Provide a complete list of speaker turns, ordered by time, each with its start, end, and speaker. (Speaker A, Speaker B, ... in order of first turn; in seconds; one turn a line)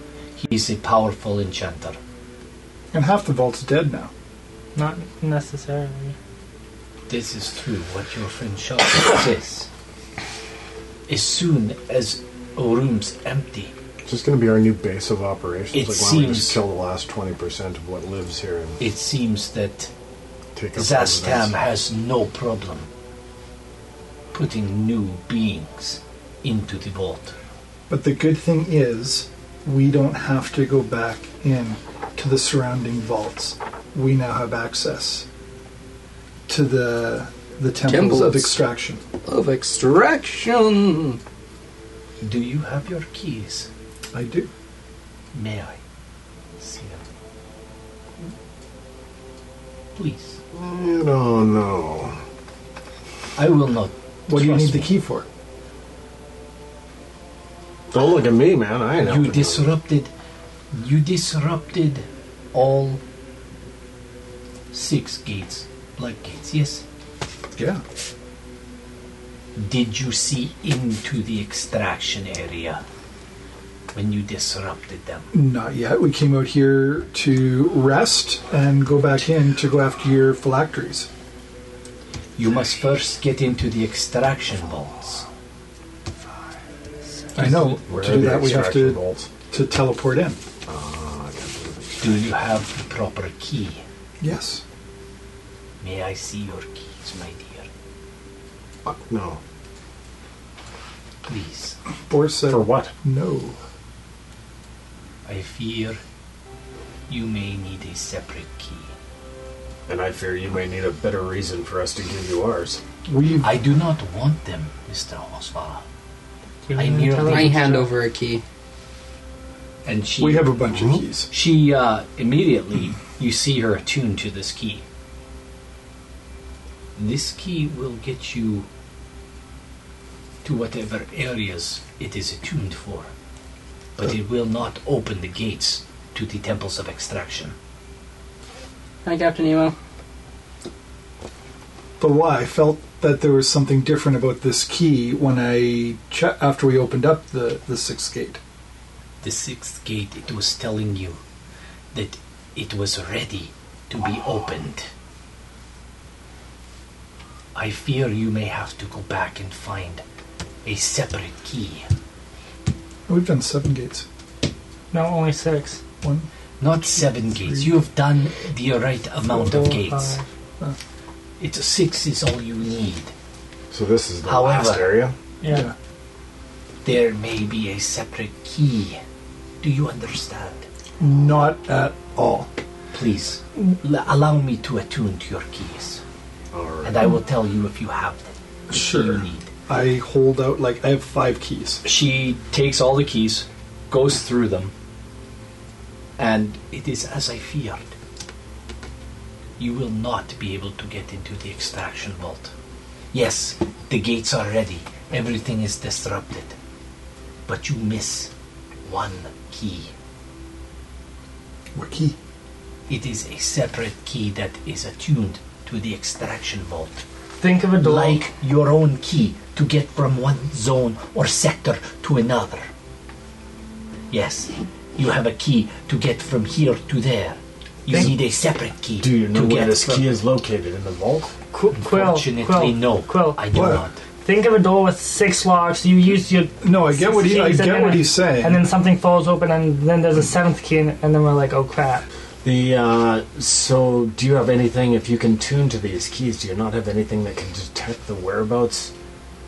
Speaker A: 0.4-2.0
Speaker B: 2.9-4.1
Speaker C: 4.8-6.2
Speaker A: 7.1-9.7
Speaker A: 11.1-13.7
Speaker D: 14.1-18.8
Speaker A: 15.7-16.6
Speaker A: 18.8-19.9
Speaker D: 20.6-21.5
Speaker A: 20.8-22.9
Speaker A: 24.3-27.4
Speaker B: 27.9-35.3
Speaker B: 36.5-39.0
Speaker E: 37.8-38.6
Speaker E: 39.2-41.2
Speaker A: 42.2-43.7
Speaker B: 44.1-44.5
Speaker A: 45.3-45.8
Speaker A: 46.6-47.0
Speaker A: 50.0-50.4
Speaker D: 50.5-52.2
Speaker A: 53.4-55.0
Speaker B: 54.3-55.3
Speaker D: 57.9-59.7
Speaker A: 59.0-60.1
Speaker A: 60.7-63.0
Speaker A: 64.7-66.8
Speaker B: 67.5-67.8
Speaker A: 69.6-72.8
Speaker A: 73.9-75.3
Speaker B: 75.3-81.1
Speaker A: 82.4-85.3
Speaker B: 87.4-90.4
Speaker A: 87.4-87.8
Speaker D: 87.8-89.3
Speaker D: 90.7-92.3
Speaker A: 92.0-93.8
Speaker B: 94.2-94.6
Speaker A: 95.8-97.7
Speaker D: 98.8-99.4
Speaker A: 101.2-101.8
Speaker B: 102.1-103.6
Speaker D: 102.5-102.9
Speaker A: 105.2-106.0
Speaker A: 107.1-108.9
Speaker D: 109.9-112.8
Speaker B: 113.1-113.5
Speaker A: 113.4-115.8
Speaker C: 116.7-117.9
Speaker A: 116.7-117.7
Speaker E: 117.3-118.4
Speaker A: 119.8-120.6
Speaker B: 120.2-121.3
Speaker D: 120.7-121.0
Speaker A: 121.3-124.8
Speaker A: 127.0-128.7
Speaker A: 130.4-133.1
Speaker A: 134.0-137.6
Speaker E: 139.1-139.8
Speaker B: 142.0-148.4
Speaker A: 149.2-151.2
Speaker A: 151.9-154.9
Speaker A: 157.6-160.0
Speaker A: 160.7-161.9
Speaker B: 163.1-164.1
Speaker C: 164.9-165.8
Speaker B: 166.0-166.3
Speaker A: 166.6-170.2
Speaker B: 166.9-167.7
Speaker C: 169.3-170.2
Speaker A: 171.4-173.1
Speaker D: 173.7-175.1
Speaker A: 174.2-175.0
Speaker C: 175.4-175.7
Speaker A: 176.8-179.0
Speaker A: 179.6-180.7
Speaker B: 181.0-182.5
Speaker A: 182.9-186.0
Speaker D: 186.5-187.1
Speaker A: 186.8-189.5
Speaker B: 188.7-191.8
Speaker A: 191.8-194.7
Speaker A: 196.2-197.9
Speaker A: 199.6-202.5
Speaker A: 203.1-206.6
Speaker A: 207.5-208.3
Speaker A: 208.9-209.9
Speaker B: 211.8-212.2
Speaker A: 212.9-217.1
Speaker C: 217.4-218.2
Speaker A: 217.8-222.7
Speaker A: 224.1-230.2
Speaker D: 229.0-231.3
Speaker C: 231.5-233.4
Speaker A: 231.7-234.0
Speaker B: 233.5-233.8
Speaker C: 234.2-242.1
Speaker B: 236.6-238.7
Speaker D: 242.4-248.9